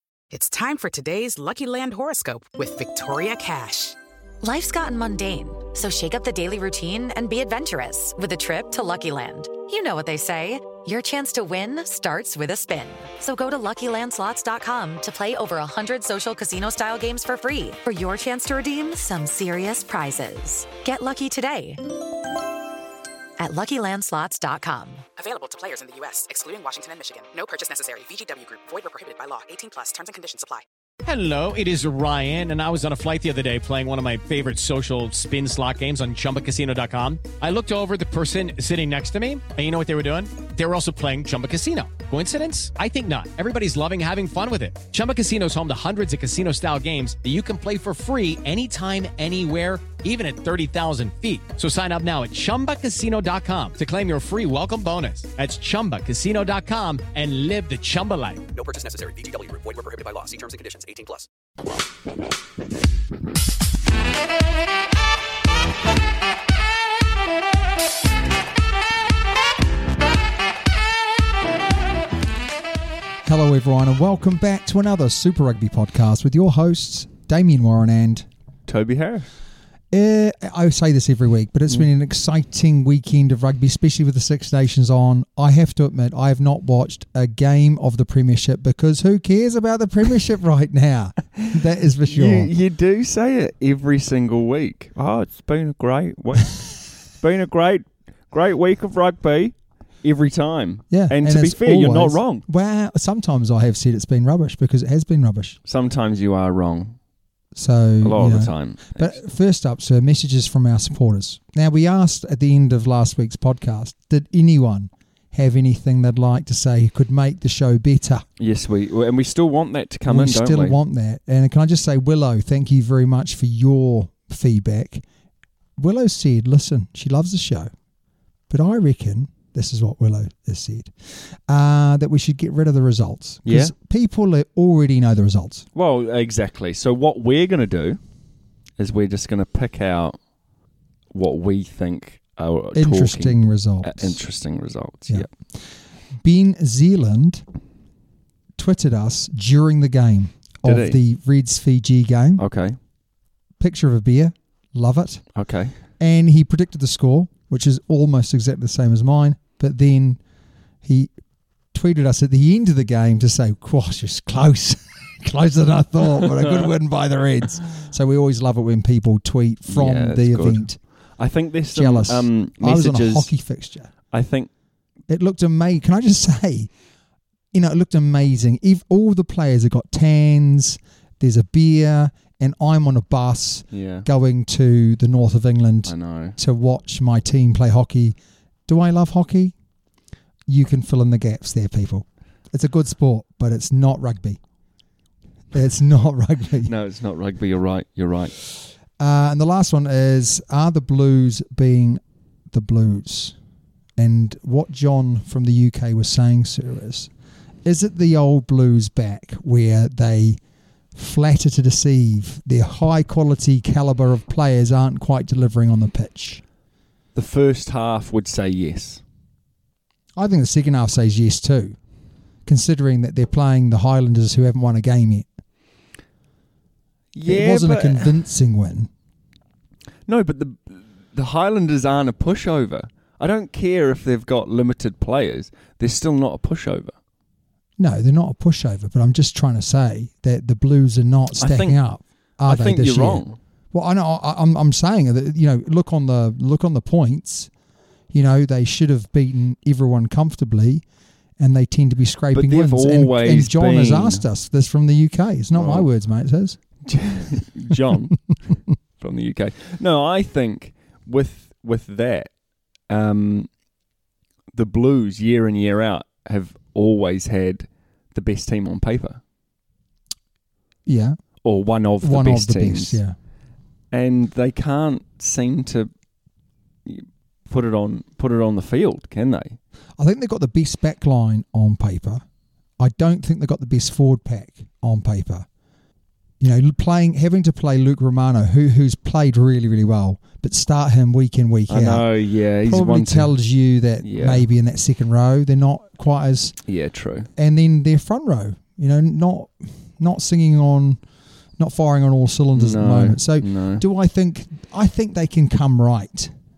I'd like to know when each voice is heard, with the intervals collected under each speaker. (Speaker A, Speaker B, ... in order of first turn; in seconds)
Speaker A: 0.3-4.0, 25.2-30.6
Speaker B: 4.4-21.8, 23.4-25.1
Speaker C: 31.0-58.5
Speaker D: 58.5-61.3
Speaker E: 73.2-78.2, 79.9-92.5, 100.9-105.6, 107.5-118.2, 120.1-125.0, 125.8-127.7, 128.5-135.6, 142.7-144.2, 146.2-147.4, 148.6-152.4, 153.6-155.2, 156.0-160.2, 160.8-161.1, 161.7-170.8, 171.7-173.9, 175.1-176.7, 177.5-189.5, 190.5-194.4, 195.5-196.7, 199.0-203.3, 204.0-207.1, 207.6-210.4, 210.9-216.4, 220.2-221.8, 222.4-225.3, 227.2-228.9, 237.8-247.5, 248.1-250.8, 251.4-256.6, 270.9-271.2, 272.0-273.1, 280.0-282.2, 282.8-285.4, 286.4-292.1, 292.6-296.6, 297.4-301.0, 301.6-306.3
Speaker F: 78.7-79.3, 91.4-102.4, 105.7-107.0, 108.0-109.1, 118.4-120.8, 133.4-133.7, 135.7-138.0, 138.8-140.2, 141.1-145.3, 150.6-151.0, 152.4-152.8, 155.3-155.7, 166.2-166.5, 169.7-173.3, 174.1-174.5, 183.7-184.1, 185.8-186.4, 196.6-198.3, 217.1-219.0, 227.1-228.1, 230.1-236.9, 241.4-241.7, 242.5-243.4, 252.3-254.2, 255.6-255.9, 256.9-258.2, 259.0-262.3, 262.9-263.5, 264.5-269.2, 271.4-273.0, 273.9-275.9, 276.9-279.6, 291.7-293.3, 294.0-294.4, 296.7-297.3, 302.5-303.8